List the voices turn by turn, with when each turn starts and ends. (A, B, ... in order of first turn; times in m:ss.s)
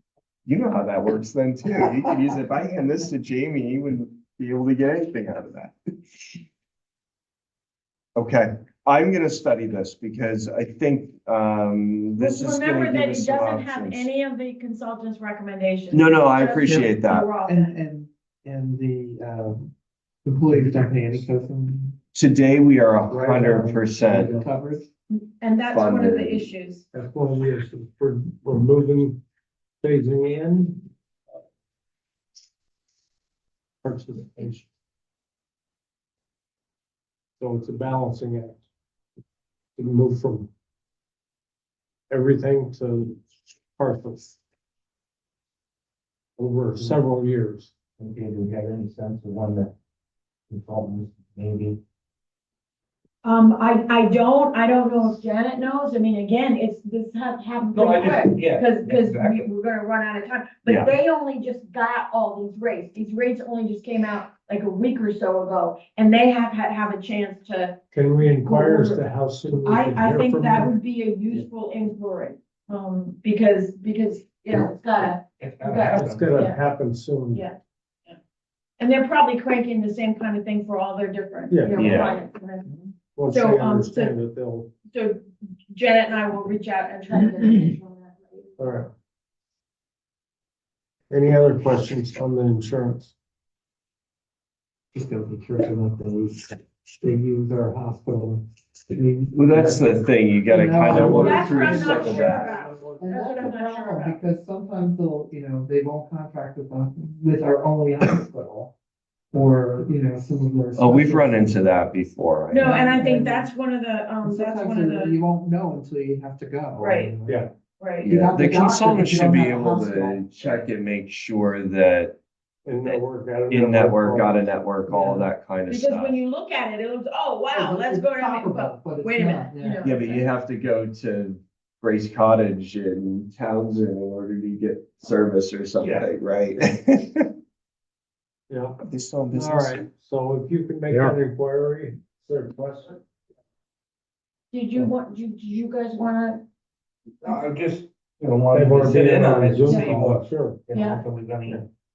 0:00.4-0:05.7 A
0:08.2-0:14.1 A
0:12.2-0:17.8 B
0:15.9-0:17.3 A
0:16.6-0:19.7 C
0:20.2-0:22.0 C
0:22.1-0:24.4 A
0:23.2-0:24.9 C
0:25.1-0:26.8 B
0:25.7-0:26.5 A
0:26.9-0:29.2 D
0:29.8-0:30.8 D
0:33.8-0:34.6 D
0:37.4-0:38.6 D
0:39.8-0:40.5 D
0:42.1-0:43.2 D
0:43.8-0:44.4 D
0:46.4-0:47.7 D
0:48.0-0:49.7 E
0:50.5-0:51.8 E
0:53.2-1:07.8 B
0:57.7-0:59.5 E
1:00.6-1:01.0 A
1:07.9-1:10.7 D
1:08.3-1:09.0 B
1:09.6-1:16.6 B
1:15.4-1:16.4 E
1:15.9-1:17.4 D
1:17.3-1:18.2 B
1:18.8-1:22.7 B
1:21.5-1:21.8 D
1:21.8-1:22.2 A
1:23.1-1:24.7 D
1:23.3-1:24.1 B
1:24.9-1:28.6 B
1:28.6-1:28.9 D
1:31.1-1:33.1 D
1:34.9-1:42.2 C
1:39.3-1:42.6 A
1:41.0-1:44.2 B
1:42.0-1:43.0 D
1:43.0-1:48.7 C
1:49.3-1:51.7 C
1:50.8-1:53.0 A
1:52.5-1:55.2 B
1:52.6-1:53.5 C
1:54.2-1:57.5 C
1:56.8-1:57.1 B
1:57.3-1:57.5 D
1:57.8-1:58.1 B
1:58.0-2:00.3 C
1:58.0-2:02.2 A
2:02.6-2:04.5 D
2:02.8-2:06.2 A
2:04.9-2:05.3 C
2:05.7-2:10.2 B
2:07.5-2:10.2 C
2:09.8-2:17.3 A
2:15.8-2:16.0 D
2:18.5-2:18.8 D
2:18.8-2:19.9 A
2:19.3-2:23.0 D
2:24.5-2:26.4 B
2:27.2-2:31.6 E
2:28.5-2:30.6 D
2:29.7-2:30.0 B
2:30.7-2:31.0 B